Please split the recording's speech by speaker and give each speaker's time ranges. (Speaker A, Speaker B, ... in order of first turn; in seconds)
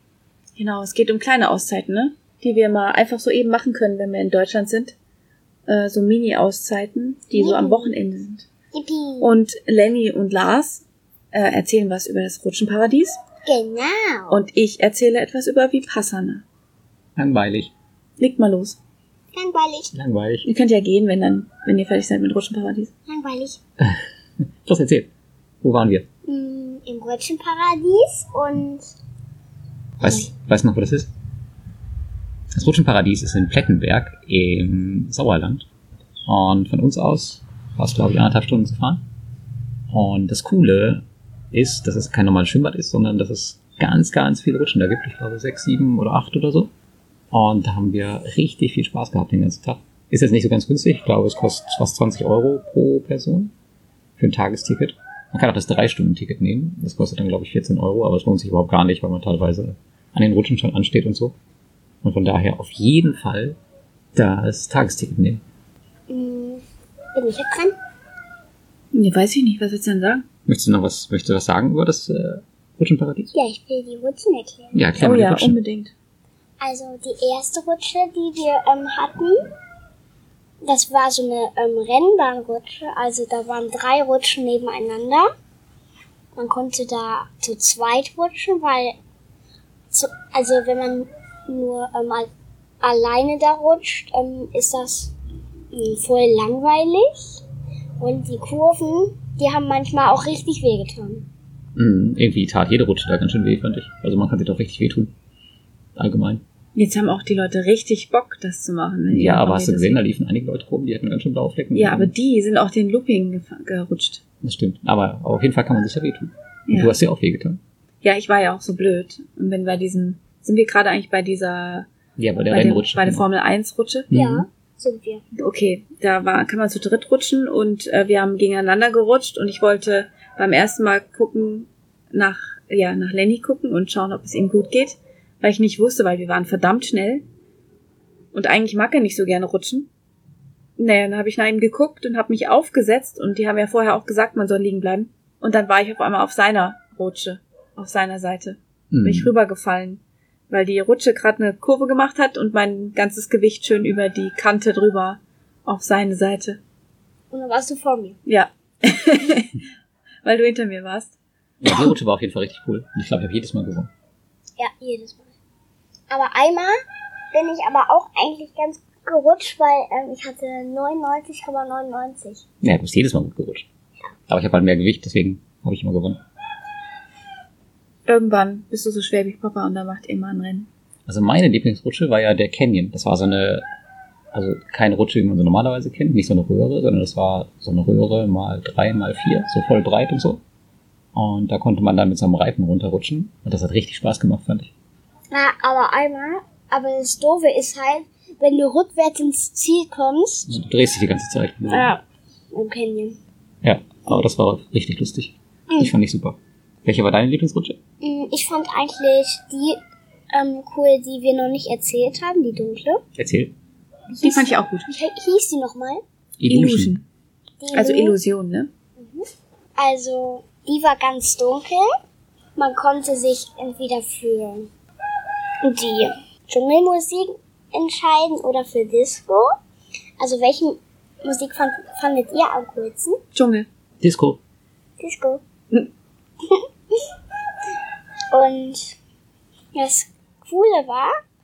Speaker A: 0.6-5.0, 5.7-8.5, 9.2-13.2, 14.3-16.4, 18.2-18.8, 20.5-22.9, 68.9-70.2, 75.0-75.9, 106.8-110.0, 111.7-114.2, 116.7-117.0, 118.0-121.9, 122.5-124.1, 125.3-137.2, 138.3-139.9, 140.8-156.6, 158.3-159.5, 160.2-161.1, 178.1-180.7, 214.1-214.9, 216.4-217.1, 217.7-218.7, 233.3-233.7
Speaker B: 7.3-8.0, 8.7-9.3, 13.4-14.4, 19.3-19.9, 23.1-23.6, 26.3-28.9, 30.0-30.3, 66.1-66.6, 67.2-67.8, 73.3-74.8, 76.6-79.5, 80.6-85.3, 86.4-89.0, 89.9-92.3, 92.8-95.1, 95.7-97.4, 98.0-101.3, 124.1-125.2, 157.3-158.2, 164.6-165.3, 166.1-166.8, 167.3-172.4, 195.3-200.5, 201.7-203.2, 208.0-209.8, 210.3-213.0, 214.2-216.0, 217.6-218.2, 219.0-219.2, 219.8-221.9, 222.6-224.7, 225.6-229.5, 230.2-233.2, 235.0-235.4, 238.3-239.0, 239.7-241.1
Speaker C: 17.2-17.7, 19.9-20.5, 24.6-25.1, 25.6-26.1, 30.0-31.1, 32.5-35.7, 36.3-39.0, 39.9-46.7, 47.3-53.5, 54.2-61.4, 62.0-63.6, 64.1-65.4, 70.5-73.3, 74.7-75.6, 101.8-105.1, 106.0-106.4, 109.1-112.1, 114.4-117.6, 122.2-123.3, 124.1-124.5, 148.9-149.3, 161.6-163.9, 172.6-173.7, 174.3-176.2, 181.1-183.7, 184.3-190.4, 191.1-194.7, 200.5-201.9, 203.6-207.8, 213.2-213.5, 216.4-217.0, 234.0-234.4